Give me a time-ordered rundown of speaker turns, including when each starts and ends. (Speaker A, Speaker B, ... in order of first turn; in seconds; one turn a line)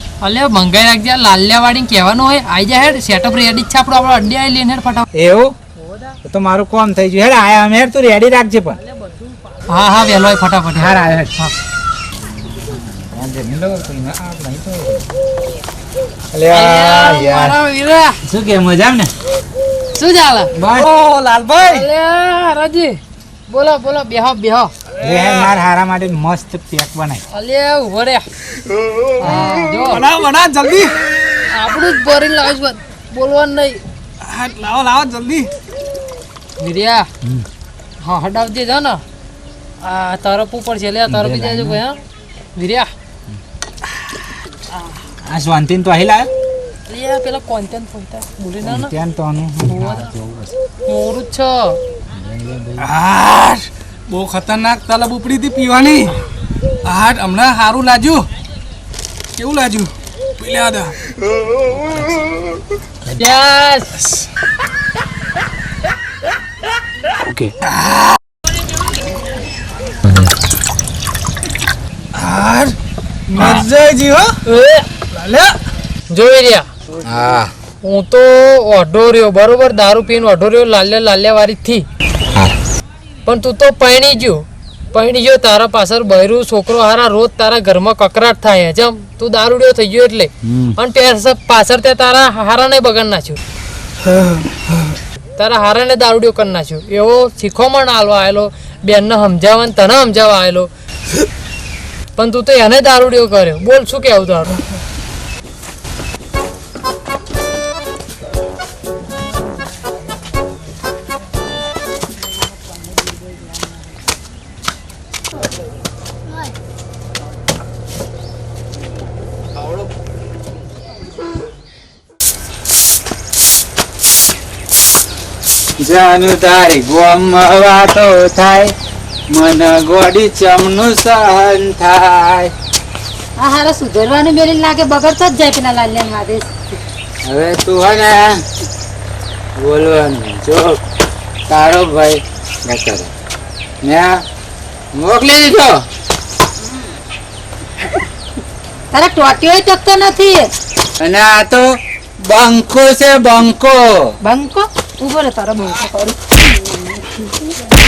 Speaker A: 0.2-5.0
Speaker B: 5.1-5.5
Speaker B: 6.2-8.8
Speaker A: 9.7-11.5
Speaker B: 10.7-11.3
Speaker B: 12.5-15.1
Speaker B: 16.3-17.6
Speaker A: 16.5-18.2
Speaker B: 18.2-19.1
Speaker A: 19.9-20.5
Speaker B: 20.6-20.9
Speaker C: 20.7-21.9
Speaker A: 21.6-24.7
Speaker B: 25.0-27.2
Speaker C: 25.0-25.5
Speaker A: 27.3-28.3
Speaker A: 29.2-30.1
Speaker C: 29.8-30.9
Speaker A: 31.5-33.8
Speaker C: 34.2-35.5
Speaker A: 36.6-37.1
Speaker A: 38.0-39.0
Speaker A: 39.8-42.0
Speaker B: 41.1-41.8
Speaker A: 42.5-42.9
Speaker B: 45.2-46.3
Speaker A: 46.9-48.9
Speaker B: 48.6-50.5
Speaker A: 49.7-50.1
Speaker A: 50.9-51.8
Speaker B: 52.1-52.9
Speaker C: 52.8-56.2
Speaker C: 56.8-58.3
Speaker C: 59.4-61.0
Speaker B: 61.7-62.2
Speaker A: 63.1-63.9
Speaker C: 72.1-72.7
Speaker C: 73.3-74.4
Speaker A: 74.5-74.9
Speaker C: 75.1-75.6
Speaker A: 76.1-76.7
Speaker B: 77.0-77.5
Speaker A: 77.8-81.8
Speaker A: 83.2-93.4
Speaker B: 90.4-90.8
Speaker A: 95.4-100.7
Speaker A: 102.2-104.6
Speaker B: 125.8-128.7
Speaker B: 129.3-132.5
Speaker D: 133.4-136.5
Speaker B: 137.2-138.4
Speaker B: 139.6-140.8
Speaker B: 141.5-143.1
Speaker B: 143.8-144.2
Speaker B: 144.9-145.8
Speaker D: 148.9-150.5
Speaker B: 151.0-151.7
Speaker B: 152.2-154.1
Speaker D: 154.2-156.3